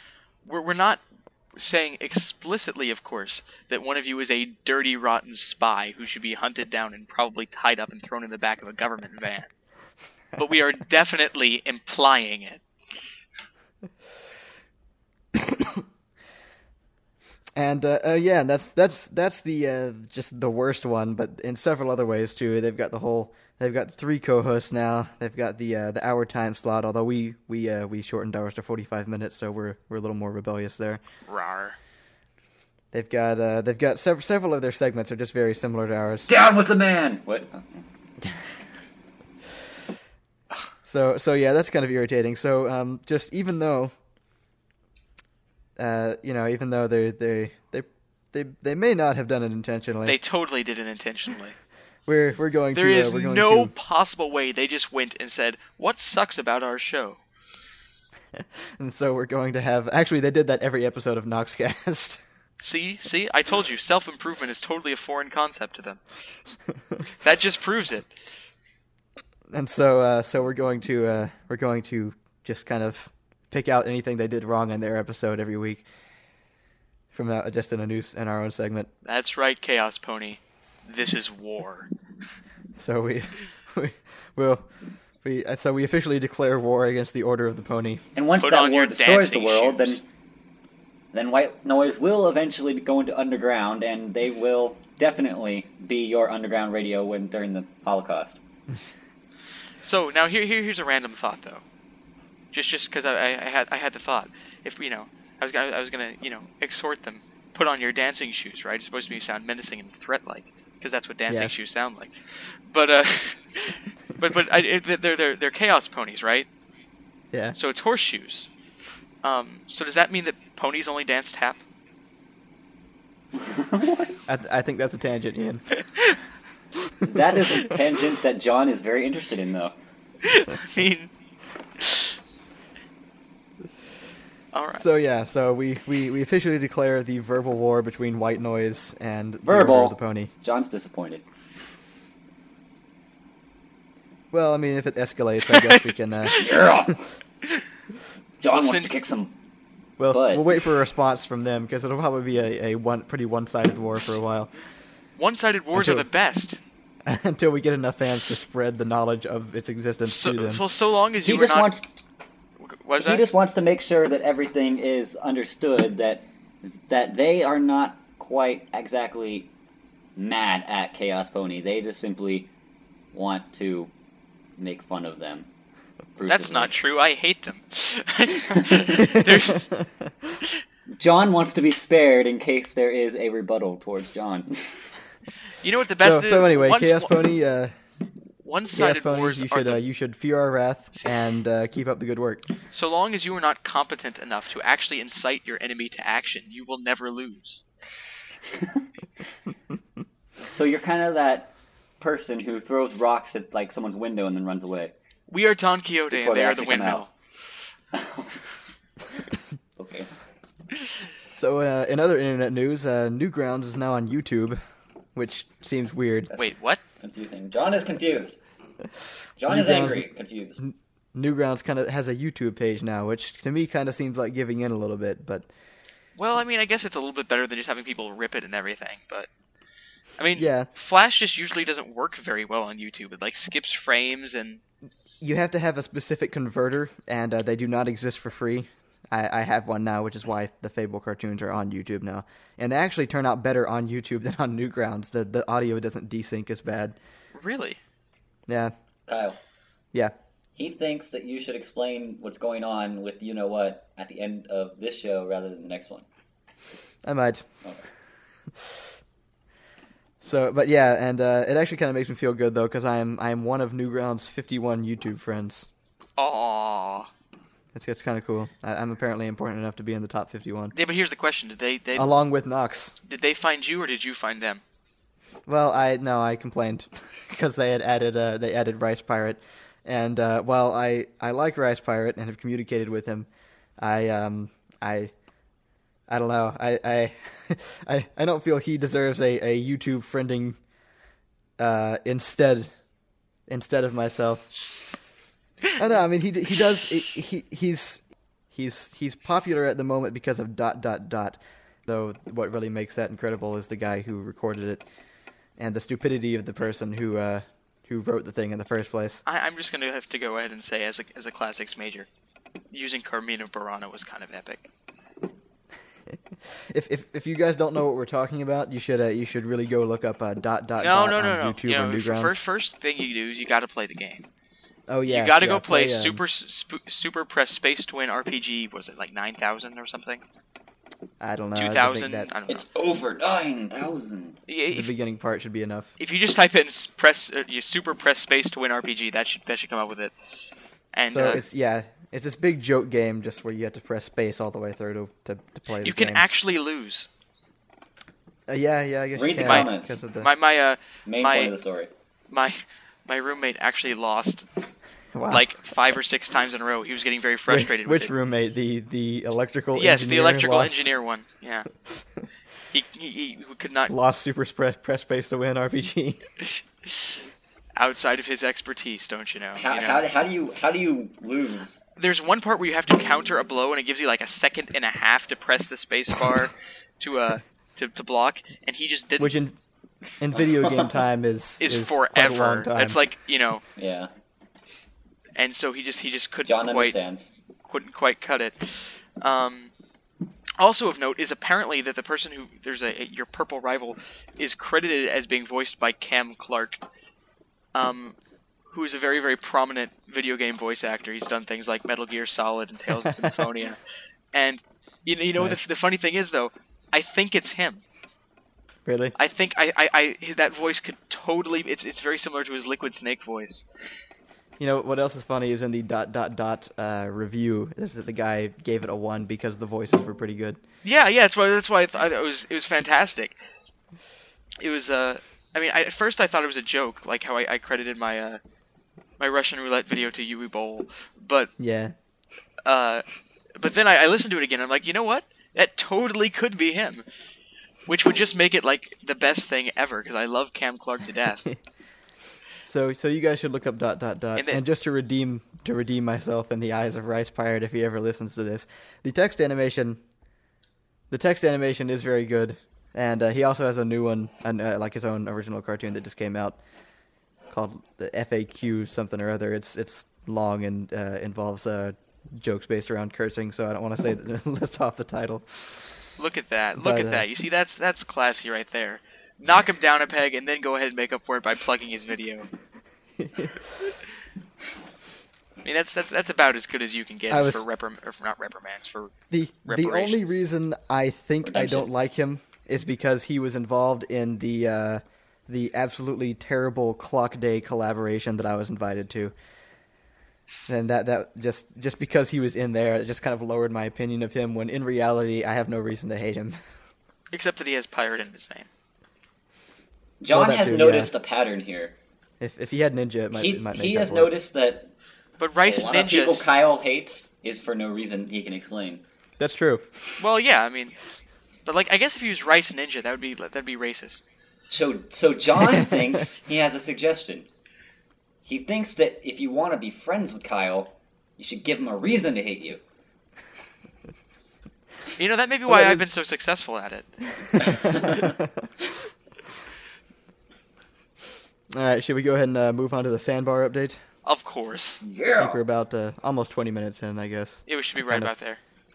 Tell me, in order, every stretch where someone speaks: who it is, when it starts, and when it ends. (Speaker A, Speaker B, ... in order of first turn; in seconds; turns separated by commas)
Speaker A: 0.4-1.0, Speaker A: 1.6-9.5, Speaker A: 10.4-12.6, Speaker B: 15.3-15.8, Speaker B: 17.6-31.0, Speaker A: 31.3-31.8, Speaker B: 32.9-36.3, Speaker C: 36.3-37.8, Speaker B: 40.8-43.9, Speaker B: 45.8-50.2, Speaker A: 50.0-51.6, Speaker B: 52.0-53.7, Speaker A: 52.7-57.2, Speaker B: 58.4-62.2, Speaker A: 62.6-66.0, Speaker A: 67.2-68.1, Speaker B: 69.5-75.8, Speaker B: 77.1-78.9, Speaker A: 79.0-81.9, Speaker B: 82.7-84.7, Speaker B: 85.2-88.0, Speaker C: 88.1-90.0, Speaker A: 88.4-90.0, Speaker C: 91.1-98.4, Speaker A: 99.8-101.6, Speaker A: 102.5-116.5, Speaker A: 117.5-118.5, Speaker A: 119.2-121.6, Speaker C: 123.3-124.2, Speaker B: 124.3-125.7, Speaker C: 127.0-129.7, Speaker A: 130.2-131.1, Speaker A: 131.8-132.1, Speaker A: 134.5-134.8, Speaker B: 134.8-140.3, Speaker C: 139.4-141.2, Speaker B: 144.3-146.4, Speaker A: 145.5-146.5, Speaker C: 146.3-147.1, Speaker C: 148.4-149.3, Speaker A: 148.5-148.9, Speaker B: 150.0-154.5, Speaker C: 150.1-150.8, Speaker A: 155.2-156.6, Speaker B: 155.7-156.1, Speaker B: 157.0-160.6, Speaker A: 160.1-161.7, Speaker C: 161.2-161.9, Speaker A: 162.6-163.2, Speaker C: 163.0-169.5, Speaker C: 170.2-172.5, Speaker C: 173.1-173.9, Speaker C: 174.6-175.5, Speaker C: 176.2-176.7, Speaker A: 176.3-179.7, Speaker B: 178.9-180.4, Speaker C: 180.9-184.9, Speaker A: 185.6-187.2, Speaker B: 186.0-187.7, Speaker A: 188.4-189.8, Speaker B: 188.7-192.4, Speaker A: 192.7-197.6, Speaker C: 198.5-198.8, Speaker C: 200.4-204.9, Speaker A: 205.3-207.1, Speaker C: 206.1-207.0, Speaker C: 207.9-208.4, Speaker C: 209.8-210.1, Speaker B: 211.3-214.6, Speaker B: 215.1-216.3, Speaker C: 216.3-218.4, Speaker A: 216.3-216.8, Speaker C: 219.4-220.6, Speaker B: 219.5-220.1, Speaker B: 220.6-225.5, Speaker A: 226.2-229.3, Speaker A: 230.2-234.6, Speaker B: 230.3-230.7, Speaker B: 235.2-246.9, Speaker A: 247.3-247.8, Speaker B: 248.5-248.7, Speaker C: 249.1-249.4, Speaker C: 250.6-256.1, Speaker B: 257.0-257.5, Speaker B: 258.5-258.9, Speaker B: 260.2-265.7, Speaker A: 266.2-267.1, Speaker B: 267.7-270.7, Speaker A: 270.7-272.1, Speaker B: 271.9-272.9, Speaker A: 273.0-274.6, Speaker B: 275.5-283.3, Speaker B: 283.8-285.1, Speaker B: 286.1-290.6, Speaker B: 291.6-292.7, Speaker B: 293.5-294.5, Speaker B: 295.8-298.0, Speaker B: 298.5-304.8, Speaker B: 305.6-309.2, Speaker A: 309.2-312.1, Speaker A: 312.7-314.7, Speaker B: 316.1-322.4, Speaker A: 320.8-324.3, Speaker B: 324.9-326.2, Speaker A: 325.1-330.2, Speaker B: 331.2-332.3, Speaker A: 331.6-332.7, Speaker C: 332.5-334.4, Speaker A: 334.5-334.9, Speaker B: 334.7-335.9, Speaker A: 336.0-340.1, Speaker A: 340.9-341.4, Speaker B: 341.1-346.2, Speaker A: 345.8-347.1, Speaker B: 348.5-350.3, Speaker C: 349.1-350.0, Speaker A: 349.4-351.5, Speaker C: 351.1-351.9, Speaker A: 352.3-354.4, Speaker B: 355.1-355.4, Speaker A: 355.3-358.1, Speaker B: 357.5-360.9, Speaker A: 359.7-361.7, Speaker A: 362.7-363.9, Speaker B: 363.9-366.2, Speaker A: 366.4-367.1, Speaker A: 367.8-370.0, Speaker C: 369.6-371.8, Speaker A: 372.0-379.3, Speaker B: 379.2-379.6, Speaker B: 380.2-383.0, Speaker C: 380.4-381.0, Speaker A: 381.6-383.6, Speaker C: 383.8-384.1, Speaker A: 385.4-387.0, Speaker C: 386.4-387.3, Speaker A: 387.7-388.6, Speaker A: 389.2-389.7, Speaker A: 390.6-396.8, Speaker A: 397.7-398.1, Speaker A: 398.7-403.8, Speaker B: 403.0-403.3, Speaker A: 404.3-407.8, Speaker B: 405.4-405.6, Speaker B: 408.9-409.1, Speaker A: 409.2-413.6, Speaker B: 414.6-420.6, Speaker A: 420.8-423.4, Speaker A: 424.6-428.4, Speaker A: 429.2-431.5, Speaker B: 431.6-431.9, Speaker A: 432.6-433.0, Speaker A: 433.6-437.0, Speaker A: 437.9-441.5, Speaker B: 442.6-450.0, Speaker A: 444.4-444.6, Speaker B: 451.1-456.6, Speaker B: 457.5-466.1, Speaker A: 466.2-472.5, Speaker B: 466.8-467.2, Speaker B: 473.2-473.9, Speaker A: 475.6-479.1, Speaker B: 477.3-477.6, Speaker B: 479.3-489.3, Speaker A: 479.6-480.2, Speaker C: 481.4-481.9, Speaker B: 490.7-496.6, Speaker A: 497.3-498.7, Speaker C: 500.2-501.9, Speaker B: 500.3-501.1, Speaker B: 502.4-504.3, Speaker C: 503.3-504.9, Speaker A: 505.4-506.5, Speaker C: 505.6-509.0, Speaker B: 509.4-509.9, Speaker A: 510.2-511.0, Speaker A: 511.6-514.2, Speaker C: 514.7-517.5, Speaker B: 515.7-516.0, Speaker C: 518.4-522.8, Speaker A: 525.2-528.2, Speaker B: 525.7-526.0, Speaker B: 527.6-528.7, Speaker C: 527.6-528.2, Speaker B: 531.7-534.0, Speaker A: 534.2-535.0, Speaker C: 535.0-535.6, Speaker B: 535.4-538.3, Speaker A: 537.7-538.6